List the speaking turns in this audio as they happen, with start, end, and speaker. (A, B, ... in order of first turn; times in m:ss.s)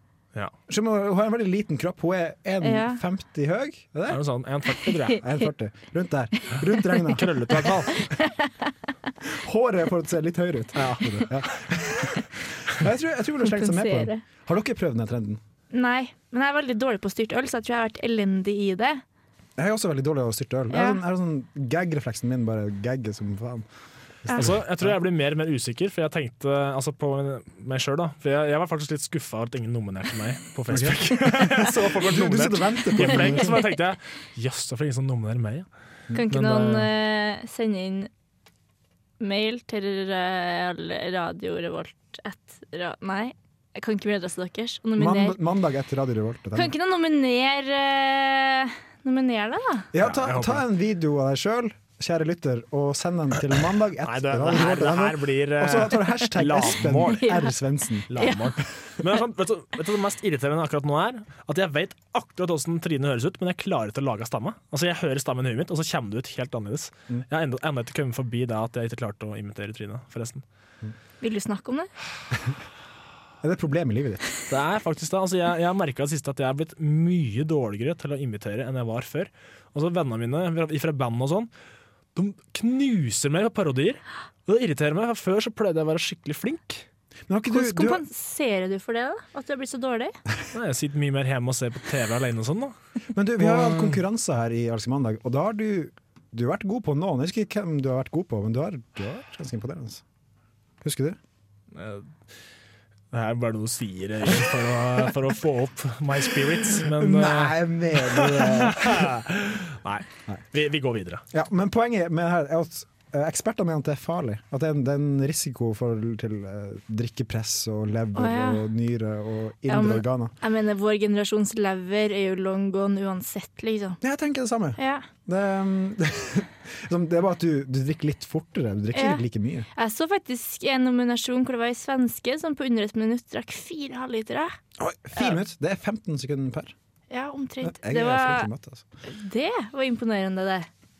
0:00.7-0:04.2 A
0:02.6-0:03.0 B
0:04.1-0:05.2 C
0:05.1-0:07.8 A
0:07.1-0:08.0 C
0:08.0-0:08.7 B
0:09.3-0:15.4 A
0:10.8-0:11.3 C
0:13.4-0:14.2 B
0:15.7-0:19.0 B
0:19.6-0:23.7 A
0:20.7-0:21.0 B
0:24.2-0:25.0 A
0:24.3-0:35.7 C
0:30.7-0:33.6 A
0:36.1-0:38.1 B
0:36.3-0:36.9 C
0:39.2-0:45.4 B
0:45.0-0:46.7 A
0:46.5-0:49.9 B
0:49.9-0:58.2 A
0:50.0-0:50.6 C
0:54.0-0:57.3 C
0:57.2-0:57.5 B
0:58.1-1:10.4 C
0:58.2-0:58.6 B
1:11.2-1:11.9 B
1:13.4-1:14.3 A
1:14.5-1:21.5 C
1:22.2-1:26.9 C
1:27.3-1:28.0 A
1:27.5-1:30.2 B
1:30.5-1:32.8 C
1:33.1-1:40.0 A
1:33.4-1:34.0 C
1:40.8-1:41.2 A
1:41.7-1:42.1 C
1:43.1-1:51.2 C
1:46.8-1:49.2 A
1:51.3-2:00.3 A
1:58.2-1:58.6 B
1:59.7-2:04.0 B
2:04.0-2:09.7 A
2:04.8-2:05.1 B
2:08.9-2:09.2 B
2:09.8-2:14.6 B
2:14.8-2:16.7 A
2:17.1-2:18.5 B
2:17.6-2:18.8 A
2:19.1-2:20.7 B